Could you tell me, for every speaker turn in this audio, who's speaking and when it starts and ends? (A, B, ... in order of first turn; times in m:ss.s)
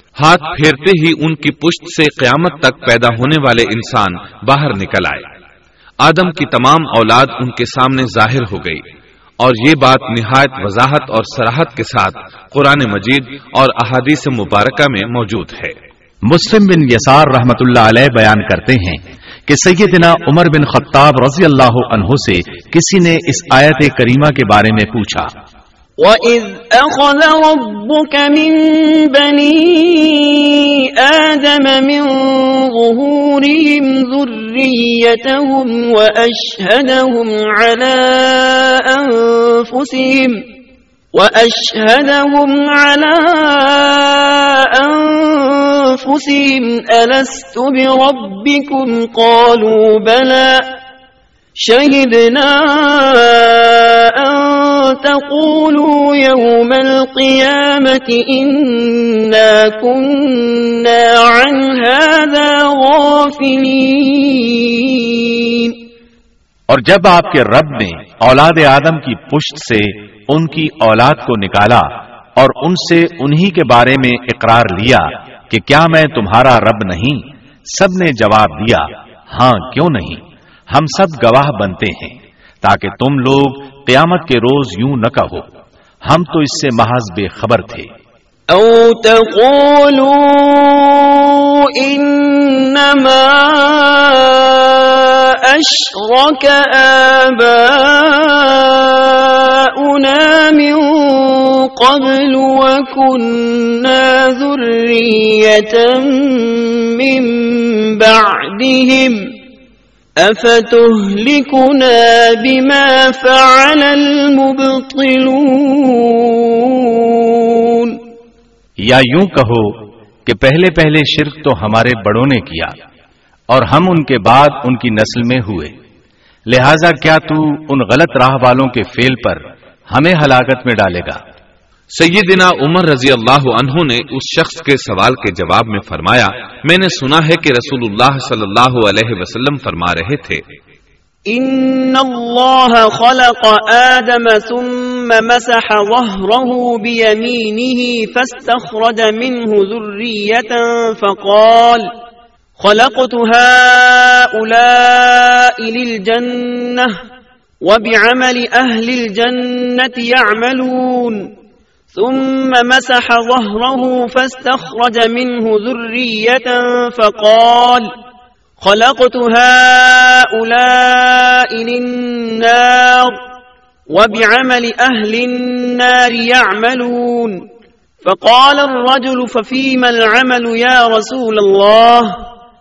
0:00.2-0:05.3 A
0:06.0-0:08.8 A
0:09.4-0:15.8 A
0:16.3-0:25.3 B
0:26.0-0:40.4 C
0:41.1-0:50.7 C
0:51.6-1:05.8 C
1:06.7-1:25.5 B
1:26.1-1:27.9 B
1:28.5-1:49.3 C
1:50.2-1:58.0 C
1:58.8-2:02.7 B
2:03.5-2:05.7 B
2:06.5-2:11.2 B
2:12.0-2:20.4 A
2:21.3-2:31.9 C
2:32.6-2:37.0 C
2:37.6-2:41.3 C
2:42.0-2:47.9 C
2:48.6-2:53.2 C
2:53.9-2:57.4 C
2:58.0-3:02.2 C